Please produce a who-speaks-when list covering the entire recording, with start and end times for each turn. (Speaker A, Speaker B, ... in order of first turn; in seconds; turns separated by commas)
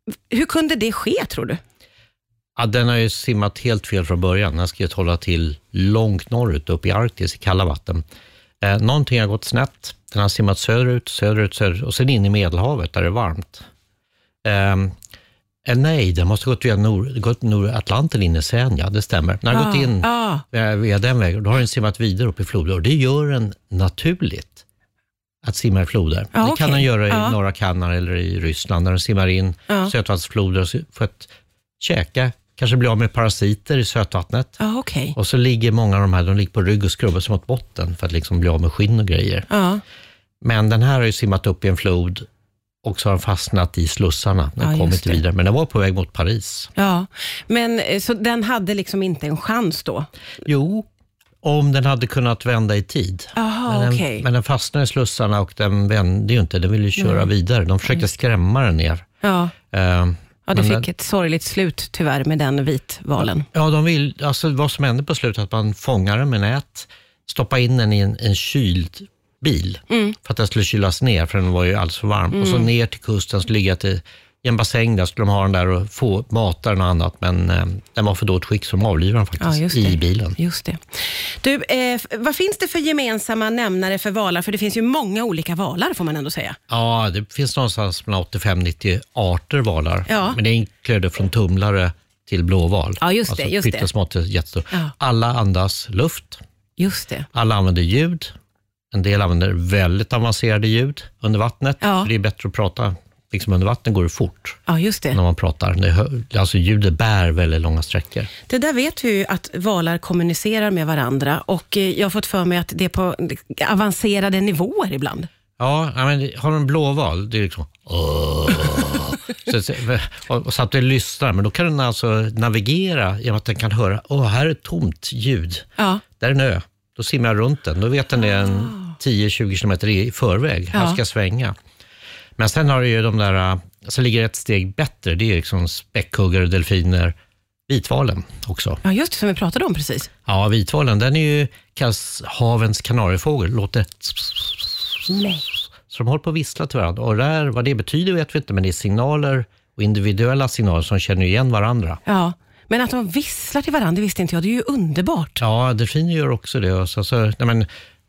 Speaker A: 0.3-1.6, Speaker B: 2.6-8.0, Speaker B: 8.6-13.6, Speaker B: 14.4-14.9, Speaker B: 15.6-24.6, Speaker A: 19.5-20.4, Speaker B: 25.4-34.6, Speaker A: 26.3-27.4, Speaker A: 34.6-35.1, Speaker B: 35.1-39.5, Speaker A: 39.5-39.8, Speaker B: 40.4-42.2, Speaker B: 42.8-46.7, Speaker A: 44.6-45.2, Speaker A: 46.8-50.1, Speaker B: 50.4-50.9, Speaker B: 51.4-59.0, Speaker A: 53.3-54.2, Speaker A: 57.0-57.3, Speaker A: 59.2-59.5, Speaker B: 59.7-60.9, Speaker A: 60.5-63.5, Speaker B: 63.2-80.4, Speaker A: 69.9-70.2, Speaker A: 72.3-72.7, Speaker A: 79.4-86.6, Speaker B: 86.7-96.4, Speaker A: 90.1-90.4, Speaker A: 93.0-93.9, Speaker A: 96.8-97.3, Speaker B: 97.3-98.3, Speaker B: 98.9-104.6, Speaker A: 101.8-102.1, Speaker A: 104.7-105.2, Speaker B: 105.1-108.3, Speaker A: 108.5-115.3, Speaker B: 115.6-125.6, Speaker A: 125.8-126.0, Speaker B: 126.2-131.5, Speaker A: 130.7-131.0, Speaker B: 132.4-137.1, Speaker B: 137.7-138.8, Speaker A: 138.8-140.1, Speaker B: 140.3-152.0, Speaker A: 152.1-155.4, Speaker B: 155.4-157.7